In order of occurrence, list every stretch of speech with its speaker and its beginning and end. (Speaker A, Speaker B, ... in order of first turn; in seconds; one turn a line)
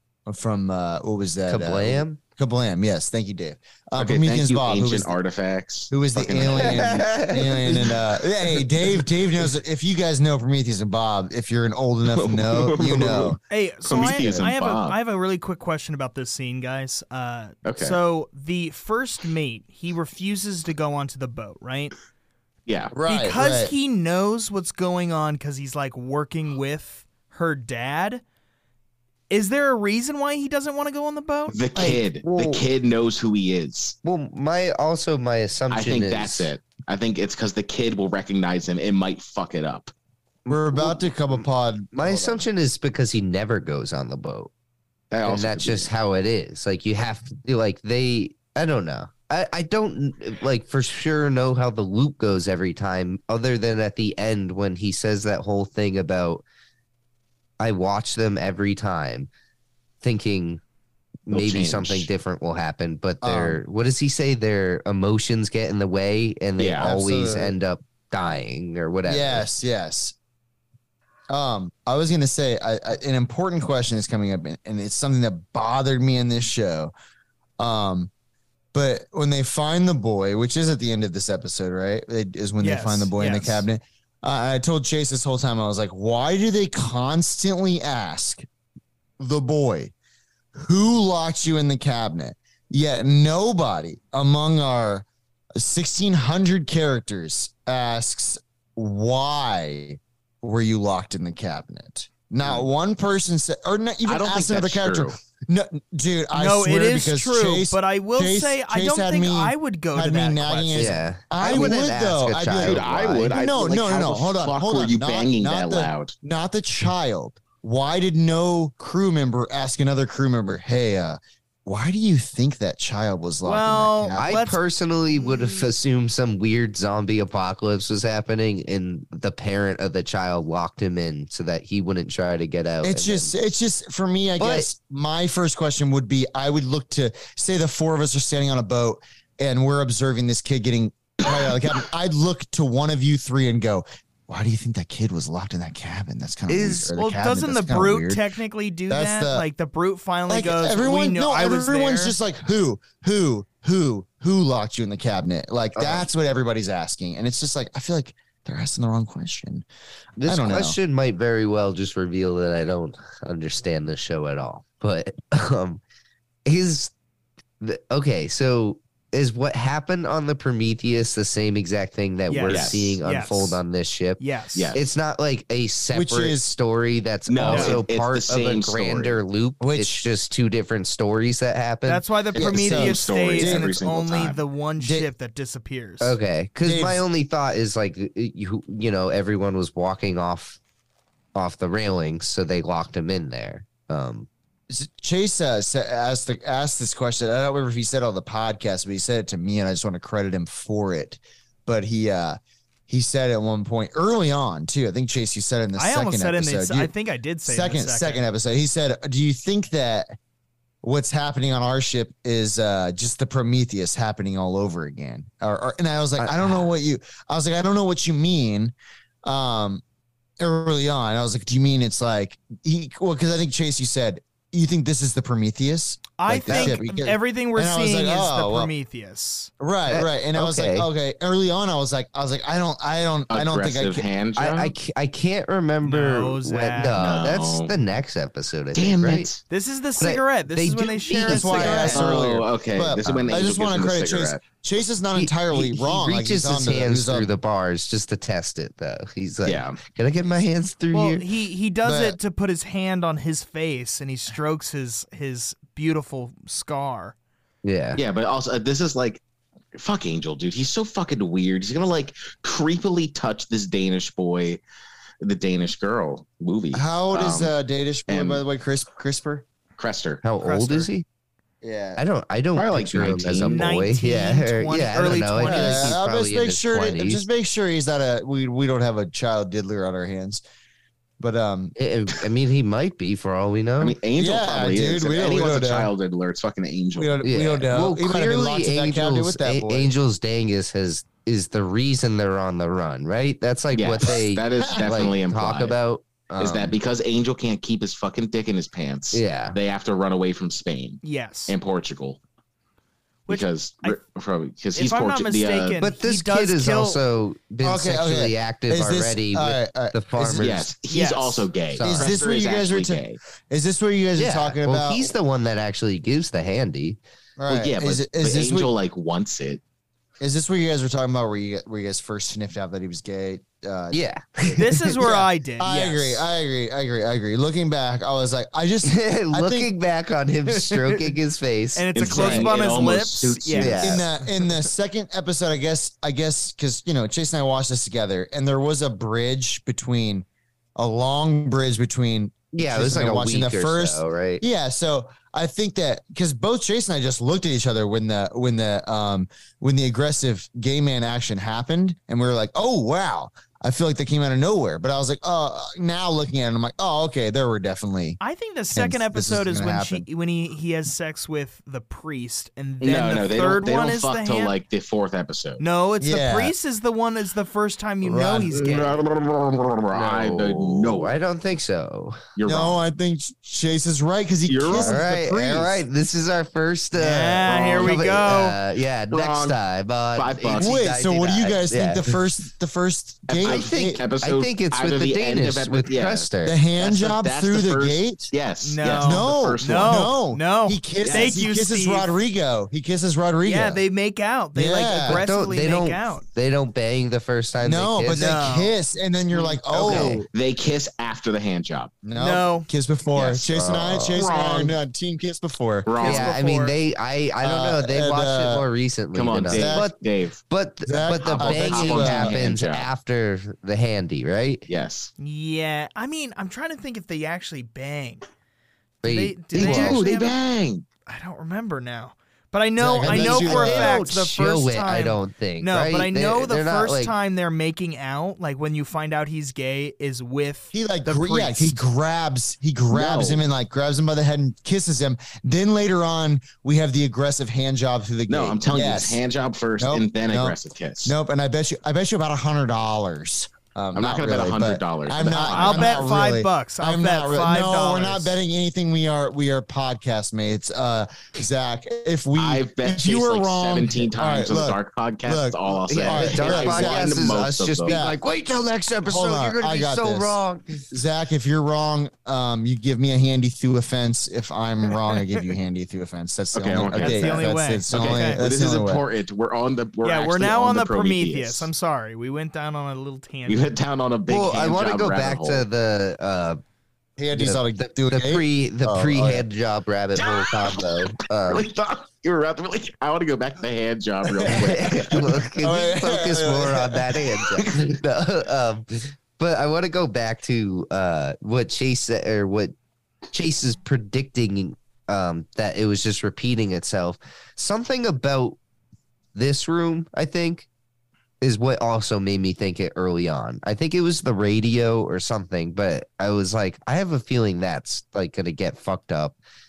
Speaker A: 0.3-5.1
Speaker B: 1.5-2.2
Speaker C: 4.0-9.1
Speaker A: 5.9-13.4
Speaker B: 6.4-7.9
Speaker C: 12.1-15.0
Speaker D: 13.5-21.9
Speaker A: 14.0-14.5
Speaker C: 17.6-18.0
Speaker C: 22.7-22.9
Speaker A: 22.9-23.7
Speaker D: 23.1-28.2
Speaker D: 29.3-31.6
Speaker C: 31.5-34.0
Speaker B: 31.8-32.6
Speaker B: 34.0-36.5
Speaker C: 35.7-39.9
Speaker B: 40.4-44.5
Speaker A: 40.5-42.4
Speaker C: 45.1-45.9
Speaker B: 45.2-56.4
Speaker B: 57.6-59.3
Speaker B: 60.0-60.6
Speaker B: 61.3-69.5
Speaker C: 61.3-62.1
Speaker A: 63.2-63.6
Speaker C: 66.6-66.9
Speaker A: 66.8-67.5
Speaker A: 69.0-70.1
Speaker A: 71.3-76.9
Speaker A: 77.6-78.1
Speaker A: 78.7-88.5
Speaker D: 82.6-83.6
Speaker A: 89.2-89.9
Speaker A: 90.5-95.0
Speaker A: 95.6-124.3
Speaker C: 104.0-105.2
Speaker D: 106.3-111.0
Speaker B: 110.7-113.3
Speaker C: 112.6-116.1
Speaker D: 123.4-124.6
Speaker B: 124.2-133.3
Speaker D: 125.1-125.7
Speaker A: 132.8-148.2
Speaker B: 134.4-134.7
Speaker D: 146.5-152.2
Speaker A: 148.9-149.4
Speaker A: 150.3-159.7
Speaker B: 155.8-156.1
Speaker B: 160.2-165.8
Speaker A: 160.3-160.8
Speaker B: 166.4-166.9
Speaker B: 167.6-174.2
Speaker D: 172.3-173.6
Speaker C: 172.5-173.0
Speaker D: 174.2-174.7
Speaker B: 174.7-182.0
Speaker A: 175.9-176.5
Speaker C: 177.3-179.2
Speaker D: 177.4-177.8
Speaker A: 179.6-180.1
Speaker D: 181.9-186.2
Speaker A: 182.4-183.7
Speaker C: 182.4-184.4
Speaker A: 184.8-185.1
Speaker B: 186.0-190.6
Speaker A: 186.6-187.0
Speaker B: 191.3-194.3
Speaker A: 194.7-206.9
Speaker D: 205.8-208.2
Speaker A: 207.4-210.1
Speaker A: 210.8-218.7
Speaker B: 216.2-216.7
Speaker A: 219.2-219.8
Speaker A: 220.4-228.7
Speaker D: 226.2-229.5
Speaker B: 226.5-226.8
Speaker A: 229.6-234.1
Speaker B: 229.9-230.9
Speaker C: 233.3-234.7
Speaker B: 234.4-239.3
Speaker D: 235.8-237.2
Speaker C: 236.9-237.7
Speaker C: 238.7-239.4
Speaker D: 239.5-242.0
Speaker B: 240.0-242.2
Speaker A: 241.3-247.3
Speaker C: 241.9-244.4
Speaker B: 245.1-251.3
Speaker C: 249.4-249.8
Speaker D: 250.9-257.1
Speaker A: 251.8-252.2
Speaker B: 257.6-258.0
Speaker C: 257.9-259.2
Speaker C: 259.7-264.6
Speaker C: 265.2-267.5
Speaker A: 266.7-269.4
Speaker C: 268.1-268.4
Speaker C: 269.8-270.2
Speaker B: 270.2-271.1
Speaker D: 270.4-270.9
Speaker A: 271.6-272.0
Speaker B: 272.0-277.2
Speaker C: 272.6-273.7
Speaker D: 273.5-276.0
Speaker A: 275.4-280.4
Speaker A: 281.2-281.7
Speaker B: 281.8-284.0
Speaker C: 283.8-287.2
Speaker A: 284.2-285.9
Speaker A: 286.9-289.9
Speaker B: 287.2-296.7
Speaker C: 293.7-295.8
Speaker A: 294.6-294.9
Speaker C: 296.4-302.2
Speaker B: 299.1-299.6
Speaker D: 301.0-301.6
Speaker D: 303.3-304.0
Speaker C: 303.3-305.8
Speaker D: 304.7-307.0
Speaker B: 305.8-310.7
Speaker A: 307.6-310.5
Speaker C: 310.4-313.2
Speaker D: 310.9-311.5
Speaker B: 311.8-312.2
Speaker A: 311.8-315.1
Speaker B: 314.2-317.0
Speaker A: 317.4-318.7
Speaker C: 317.6-319.6
Speaker A: 320.2-329.7
Speaker B: 323.9-325.0
Speaker D: 324.5-326.3
Speaker B: 328.8-332.4
Speaker D: 330.5-331.2
Speaker D: 331.7-333.8
Speaker C: 331.9-334.0
Speaker A: 332.1-332.5
Speaker B: 333.6-334.0
Speaker A: 333.8-340.3
Speaker A: 340.8-358.2
Speaker B: 342.5-344.4
Speaker D: 358.2-364.6
Speaker A: 358.7-360.1
Speaker C: 362.8-365.6
Speaker D: 365.6-369.0
Speaker A: 366.0-366.5
Speaker A: 368.0-368.6
Speaker C: 368.5-371.1
Speaker B: 369.9-372.2
Speaker C: 372.4-372.8
Speaker A: 372.4-375.8
Speaker C: 374.4-375.0
Speaker B: 374.7-382.0
Speaker D: 376.9-378.6
Speaker C: 377.5-378.1
Speaker C: 379.1-379.6
Speaker C: 380.1-380.8
Speaker A: 380.6-384.0
Speaker C: 383.3-390.1
Speaker B: 383.4-386.6
Speaker A: 386.4-388.3
Speaker D: 388.6-392.1
Speaker A: 389.0-393.8
Speaker C: 391.0-391.4
Speaker D: 393.4-396.2
Speaker A: 394.6-395.2
Speaker B: 395.0-398.3
Speaker A: 397.6-400.3
Speaker D: 398.1-398.7
Speaker C: 399.7-401.9
Speaker B: 399.8-400.2
Speaker A: 402.0-405.9
Speaker D: 402.1-402.7
Speaker C: 403.1-403.5
Speaker B: 403.5-404.3
Speaker C: 404.2-404.7
Speaker C: 405.9-406.3
Speaker D: 405.9-406.8
Speaker B: 406.0-414.6
Speaker A: 407.4-408.6
Speaker C: 409.1-410.4
Speaker A: 409.5-409.9
Speaker A: 410.9-412.5
Speaker C: 411.2-412.9
Speaker C: 414.7-415.1
Speaker D: 415.2-418.2
Speaker B: 419.0-420.0
Speaker D: 419.0-420.4
Speaker C: 419.6-420.8
Speaker D: 421.1-431.8
Speaker A: 422.8-424.1
Speaker B: 423.0-427.1
Speaker A: 430.7-439.2
Speaker C: 432.9-433.4
Speaker C: 438.3-441.1
Speaker A: 439.8-457.3
Speaker C: 443.9-446.1
Speaker D: 445.4-448.4
Speaker C: 452.3-458.0
Speaker B: 455.9-460.9
Speaker A: 457.8-458.2
Speaker A: 459.1-460.4
Speaker A: 460.9-469.0
Speaker C: 466.5-471.7
Speaker D: 466.9-468.4
Speaker D: 470.0-473.7
Speaker C: 473.5-475.6
Speaker B: 474.3-476.6
Speaker A: 477.2-479.4
Speaker B: 477.3-481.6
Speaker C: 480.2-485.4
Speaker A: 484.2-484.7
Speaker B: 484.5-492.7
Speaker A: 485.6-487.2
Speaker B: 493.3-498.6
Speaker B: 499.3-500.7
Speaker B: 501.4-509.4